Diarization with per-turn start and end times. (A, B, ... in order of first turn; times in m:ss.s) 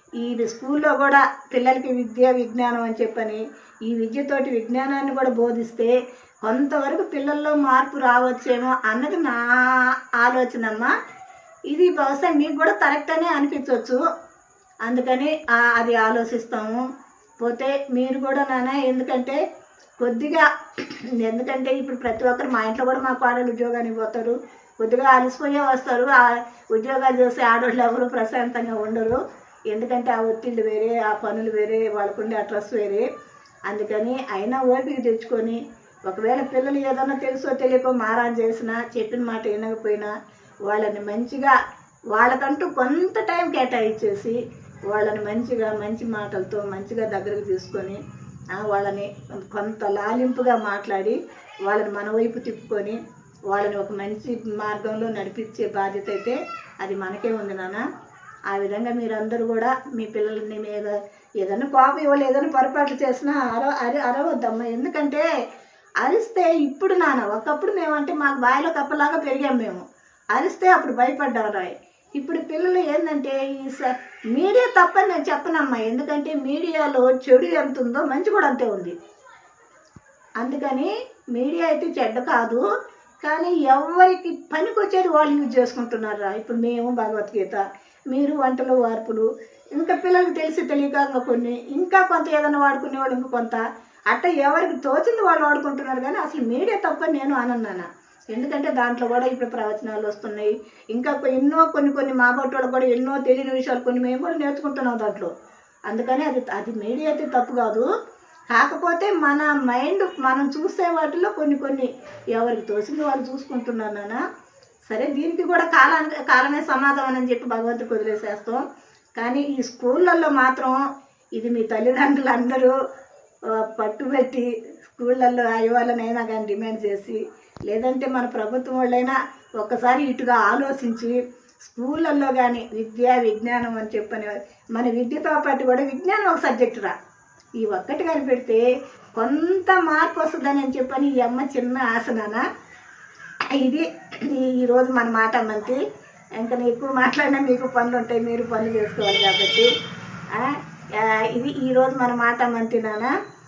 0:00.2-0:10.9 A
0:11.7-0:14.0 A
0:14.8-0:16.8 A
0:17.4-0:19.4 A
0:20.0-0:33.0 A
0:33.7-0:40.1 A
0:40.7-0:41.5 A
0:42.1-0:48.0 A
0:48.5-0:57.8 A
0:58.5-1:05.2 A
1:06.0-1:18.9 A
1:20.4-1:22.6 A
1:23.2-1:45.3 A
1:45.9-1:47.9 A
1:48.5-1:54.2 A
1:54.9-1:58.6 A
1:59.2-2:00.8 A
2:01.3-2:02.7 A
2:03.5-2:16.9 A
2:17.6-2:18.6 A
2:19.2-2:22.4 A
2:23.5-2:25.8 A
2:26.4-2:29.7 A
2:30.3-2:33.1 A